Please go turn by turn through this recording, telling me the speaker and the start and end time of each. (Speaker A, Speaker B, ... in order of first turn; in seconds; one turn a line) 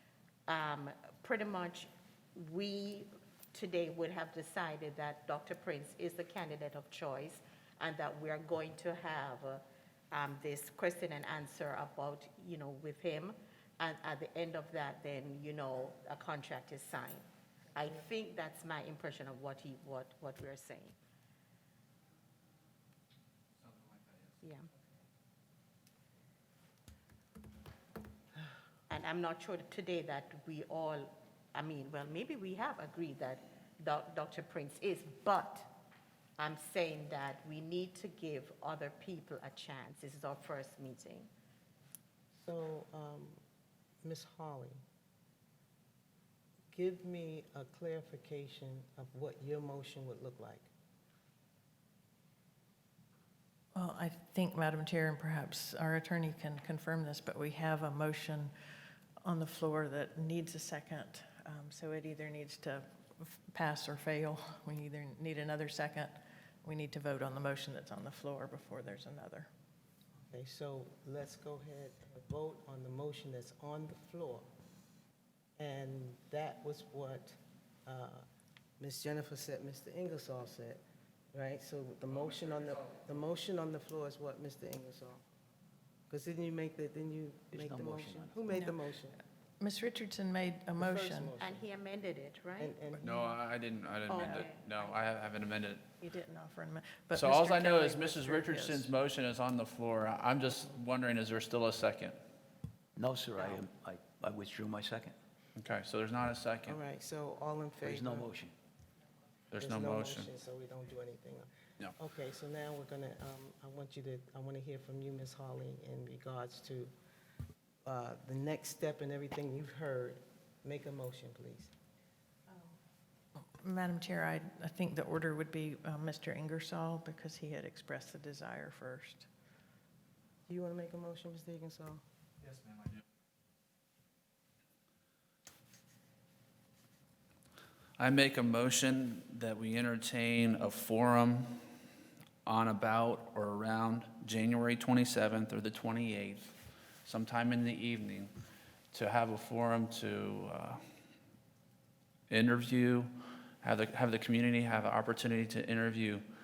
Speaker A: 0.5-20.9
Speaker A: 24.4-24.7
Speaker A: 28.9-35.7
Speaker A: 36.4-41.3
Speaker B: 42.4-43.4
Speaker B: 44.0-44.8
Speaker B: 46.7-50.7
Speaker C: 53.7-58.5
Speaker C: 59.2-69.5
Speaker B: 70.3-74.5
Speaker B: 75.6-78.2
Speaker B: 78.8-80.8
Speaker B: 81.3-85.2
Speaker B: 86.1-89.2
Speaker D: 87.5-88.5
Speaker C: 88.5-88.8
Speaker C: 89.6-91.3
Speaker B: 90.8-91.7
Speaker A: 91.4-92.7
Speaker B: 92.6-93.0
Speaker E: 93.0-95.9
Speaker A: 94.1-94.7
Speaker C: 94.2-94.9
Speaker C: 96.0-98.9
Speaker E: 97.2-102.2
Speaker D: 103.0-105.1
Speaker E: 105.5-106.8
Speaker B: 106.7-108.3
Speaker D: 107.8-108.5
Speaker E: 109.5-110.3
Speaker B: 109.6-116.9
Speaker B: 117.8-121.7
Speaker C: 122.5-122.8
Speaker C: 123.6-129.3
Speaker B: 130.5-132.0
Speaker E: 138.0-141.6
Speaker E: 142.4-146.5
Speaker E: 147.0-148.3
Speaker E: 148.9-150.8
Speaker E: 152.3-156.2